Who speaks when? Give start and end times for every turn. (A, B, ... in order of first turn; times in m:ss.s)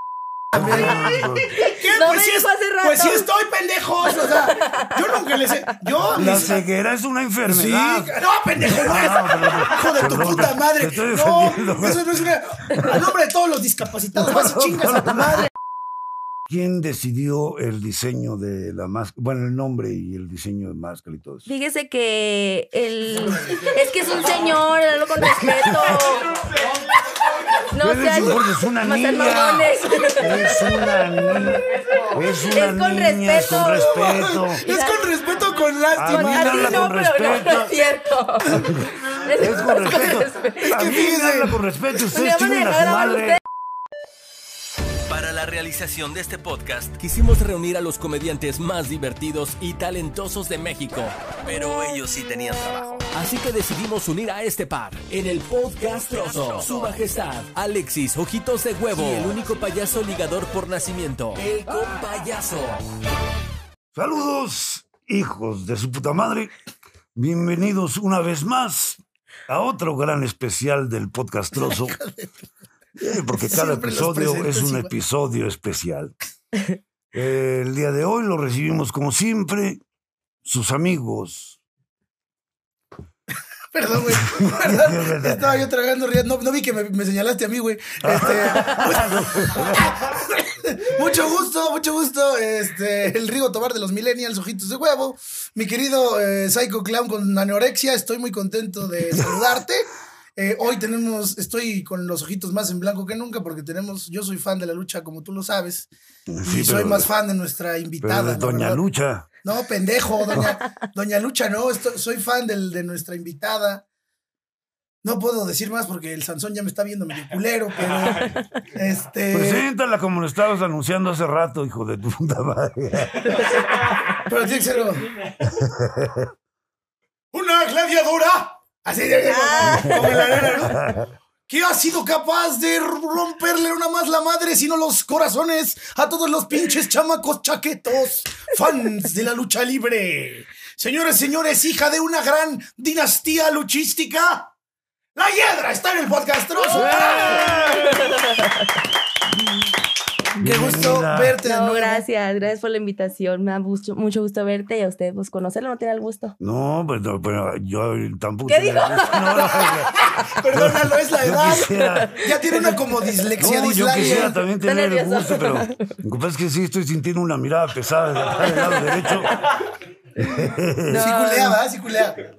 0:00.5-0:06.6 A
0:00.5-0:01.6 B
0:01.5-0:03.3 C
0:04.1-0:05.5 C
0:06.1-0:12.2 B
0:07.5-0:15.5 A
0:14.1-0:15.5 B
0:16.5-0:21.5 B
0:21.5-0:26.3 C
0:25.2-0:25.9 B
0:27.7-0:34.0 C
0:27.8-0:34.6 B
0:33.9-0:36.9 A
0:34.6-0:35.1 C
0:36.0-0:37.8 B
0:36.0-0:40.8 C
0:38.5-0:43.4 B
0:40.6-0:41.6 A
0:42.1-0:43.4 C
0:45.1-1:02.8 D
1:03.9-1:06.5 B
1:07.2-1:12.0 B
1:11.6-1:12.3 A
1:13.0-1:16.1 B
1:13.3-1:14.9 A
1:17.1-1:19.8 B
1:20.4-1:21.6 B
1:23.7-1:45.9 A
1:24.3-1:25.6 B
1:28.0-1:30.0 B
1:39.1-1:39.6 B
1:46.3-1:47.1 B
1:46.4-1:48.8 A
1:48.0-1:49.3 B
1:49.4-1:53.8 A
1:55.0-1:59.6 A
1:58.1-1:58.5 C
1:59.3-2:03.4 B
2:04.1-2:05.1 A
2:05.5-2:06.3 B
2:07.3-2:10.9 A
2:09.3-2:10.3 C
2:10.7-2:11.0 B
2:11.5-2:24.5 A
2:25.2-2:28.1 A
2:26.7-2:28.1 B
2:26.9-2:28.6 C
2:30.4-2:32.0 A
2:30.4-2:31.4 B
2:31.4-2:36.4 C
2:36.4-2:40.0 B
2:38.5-2:39.8 C
2:39.3-2:44.3 A
2:40.5-2:42.2 B
2:41.7-2:43.3 C
2:43.4-2:49.4 B
2:43.9-2:46.0 C
2:50.2-2:51.1 B
2:50.9-2:51.6 C
2:50.9-2:52.2 A